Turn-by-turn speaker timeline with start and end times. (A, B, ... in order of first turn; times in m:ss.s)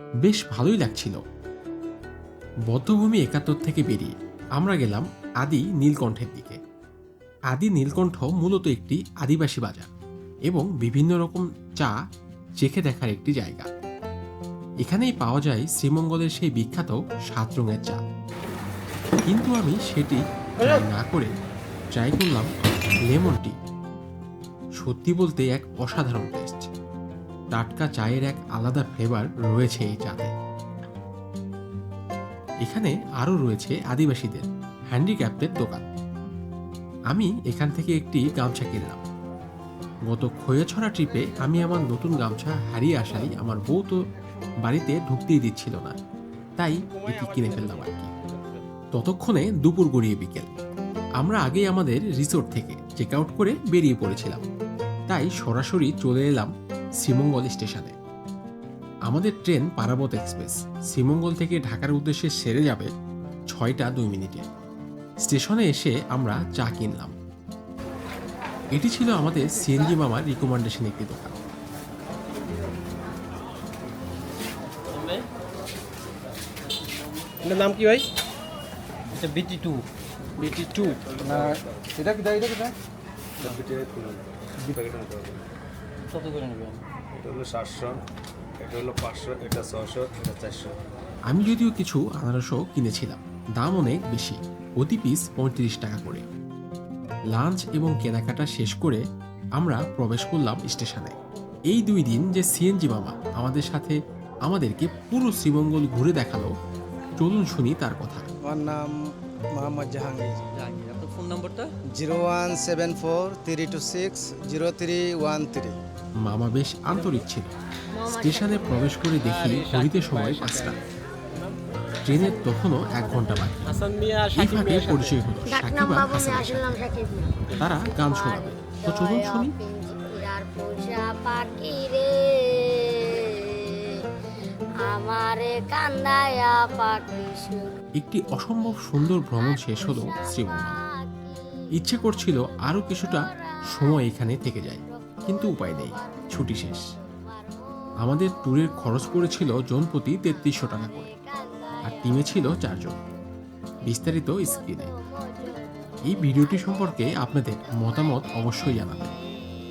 0:00.2-0:01.2 A
0:02.7-0:06.6 A
0:07.5-0:09.9 A
0:10.5-0:12.0 A
0:12.6-0:13.7 A
0:14.8-0:18.0 A
0:19.2-0:21.3 A
0:22.0-0:22.5 A
0:23.1-0:23.6 A
0:24.8-0:26.7 A
0:27.5-0:30.3 A
0:32.6-0:35.8 A
0:37.1-0:39.0 A
0:40.1-0:44.0 A
0:44.6-0:46.0 A
0:46.6-0:48.1 A
0:46.9-0:48.6 B
0:48.9-0:50.5 A
0:51.2-0:54.4 A
0:55.1-0:58.0 A
0:59.1-1:02.9 A
1:03.5-1:04.4 A
1:05.2-1:07.2 A
1:08.8-1:11.4 A
1:14.9-1:15.2 C
1:17.4-1:18.0 B
1:19.1-1:19.8 C
1:20.4-1:21.0 C
1:21.0-1:22.1 D
1:23.4-1:25.5 D
1:26.1-1:26.8 C
1:27.2-1:28.0 D
1:28.6-1:30.8 D
1:31.3-1:36.3 A
1:37.3-1:39.0 A
1:39.6-1:41.2 A
1:41.7-1:46.5 A
1:47.2-1:48.3 A
1:48.4-1:48.9 E
1:49.6-1:50.4 E
1:50.5-1:51.7 C
1:52.0-1:55.8 E
1:56.2-1:57.5 A
1:57.9-1:59.0 F
1:58.1-2:00.8 A
1:59.2-2:00.8 B
2:02.0-2:03.8 A
2:02.3-2:03.5 F
2:03.6-2:05.2 B
2:04.4-2:06.8 A
2:05.5-2:14.0 F
2:07.5-2:09.5 A
2:14.9-2:17.7 F
2:18.0-2:20.7 A
2:18.3-2:33.1 F
2:21.8-2:26.8 A
2:28.0-2:31.1 A
2:31.9-2:33.0 A
2:33.8-2:38.7 F
2:33.8-2:34.9 A
2:36.1-2:39.1 A